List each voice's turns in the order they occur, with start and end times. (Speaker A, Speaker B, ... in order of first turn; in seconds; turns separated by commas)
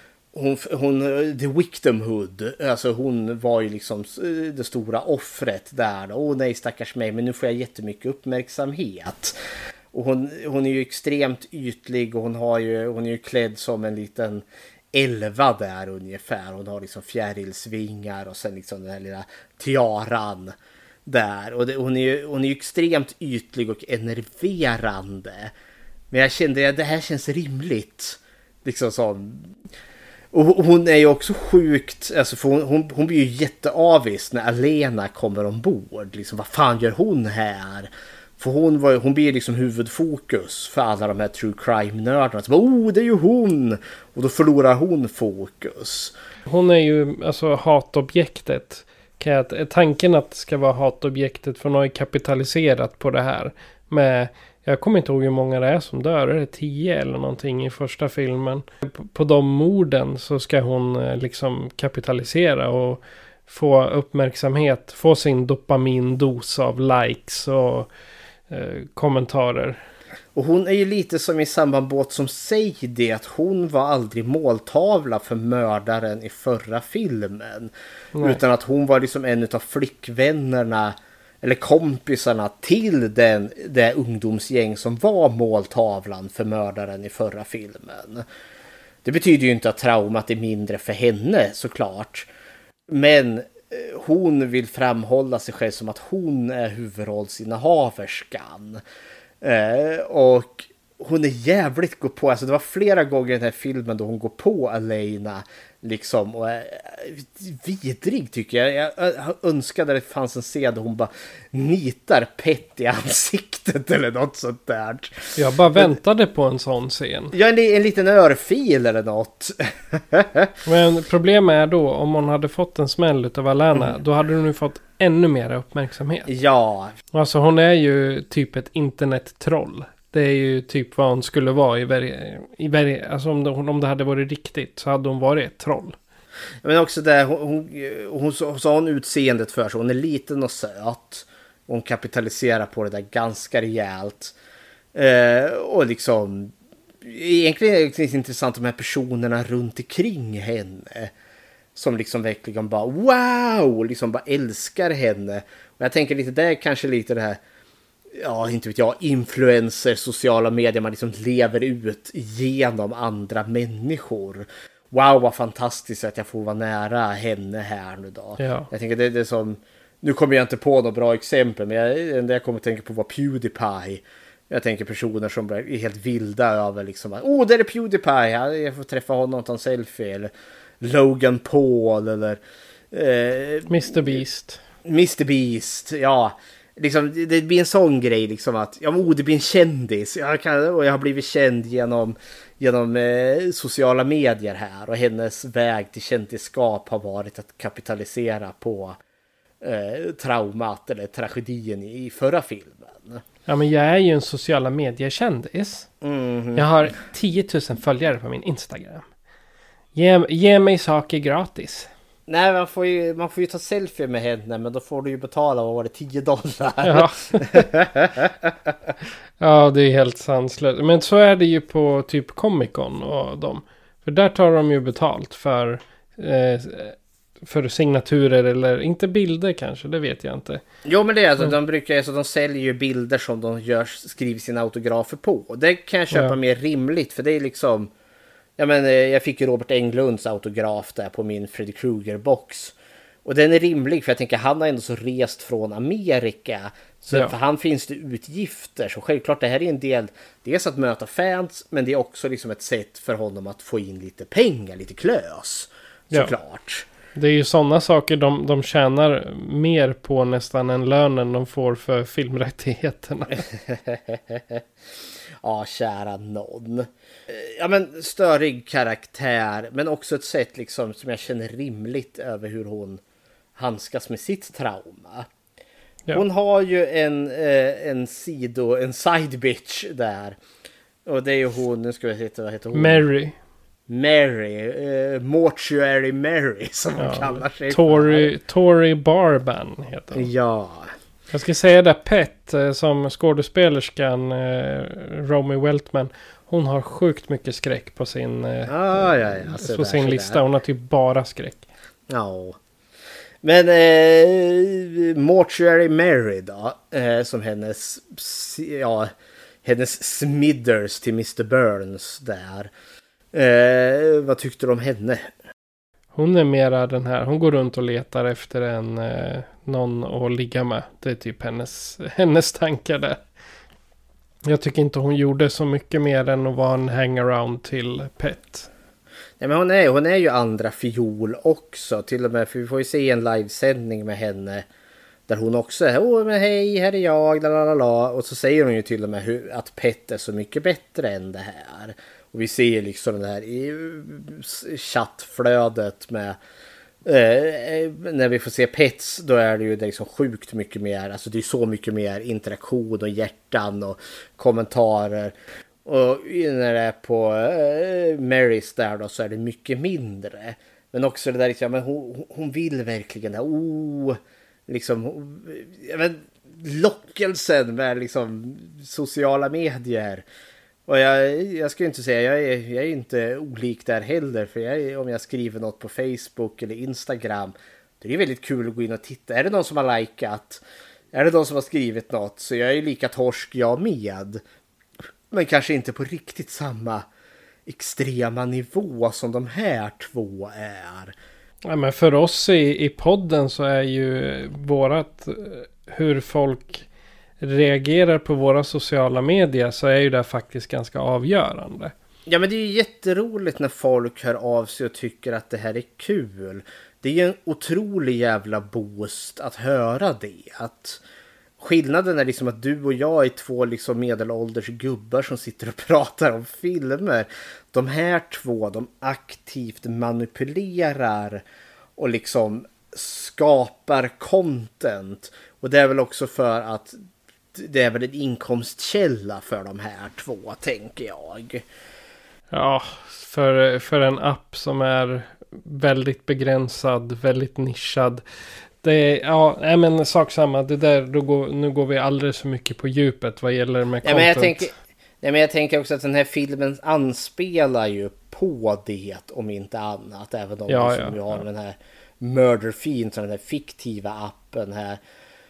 Speaker A: 0.3-9.4, Speaker A: 9.9-20.6, Speaker A: 21.1-25.5, Speaker A: 26.1-29.6, Speaker A: 30.3-46.1, Speaker B: 46.5-67.9, Speaker B: 68.5-69.8, Speaker A: 70.3-88.2, Speaker B: 78.1-78.4, Speaker A: 89.0-92.3, Speaker A: 92.9-98.8, Speaker A: 99.4-116.0, Speaker B: 115.4-117.3, Speaker A: 117.3-120.5, Speaker B: 120.7-126.3, Speaker A: 126.3-126.9, Speaker B: 127.1-136.0, Speaker A: 136.6-144.3, Speaker A: 144.9-151.1, Speaker A: 151.7-157.4, Speaker A: 158.1-182.4, Speaker B: 168.4-168.7, Speaker A: 182.9-184.2, Speaker B: 183.7-184.6, Speaker A: 184.8-199.0, Speaker A: 199.6-203.2, Speaker B: 203.5-205.9, Speaker A: 206.0-206.7, Speaker B: 206.6-209.0, Speaker B: 209.9-211.9, Speaker A: 212.3-218.7, Speaker B: 216.8-217.6, Speaker B: 219.4-230.6, Speaker A: 230.8-237.9, Speaker A: 238.6-256.9, Speaker B: 257.1-263.4, Speaker A: 263.4-264.6, Speaker A: 265.4-273.0, Speaker A: 273.6-275.3, Speaker A: 276.1-280.4, Speaker A: 281.1-283.0, Speaker B: 282.7-283.4, Speaker A: 283.9-288.3, Speaker B: 287.0-290.3, Speaker A: 290.1-290.9, Speaker B: 291.3-301.6, Speaker A: 298.7-300.4, Speaker A: 302.1-302.6, Speaker A: 303.4-312.7, Speaker A: 313.3-315.3, Speaker B: 316.2-323.2, Speaker B: 324.4-328.7, Speaker A: 329.4-334.7, Speaker A: 335.3-346.4, Speaker A: 347.1-370.2, Speaker A: 370.9-384.4, Speaker A: 385.3-387.1, Speaker A: 387.7-391.1, Speaker B: 391.6-396.9, Speaker B: 397.4-401.9, Speaker A: 402.3-411.0, Speaker A: 411.6-421.4, Speaker A: 422.0-427.0, Speaker A: 427.5-431.6, Speaker B: 432.5-438.2, Speaker B: 438.8-444.7, Speaker A: 444.0-455.0, Speaker B: 450.7-451.4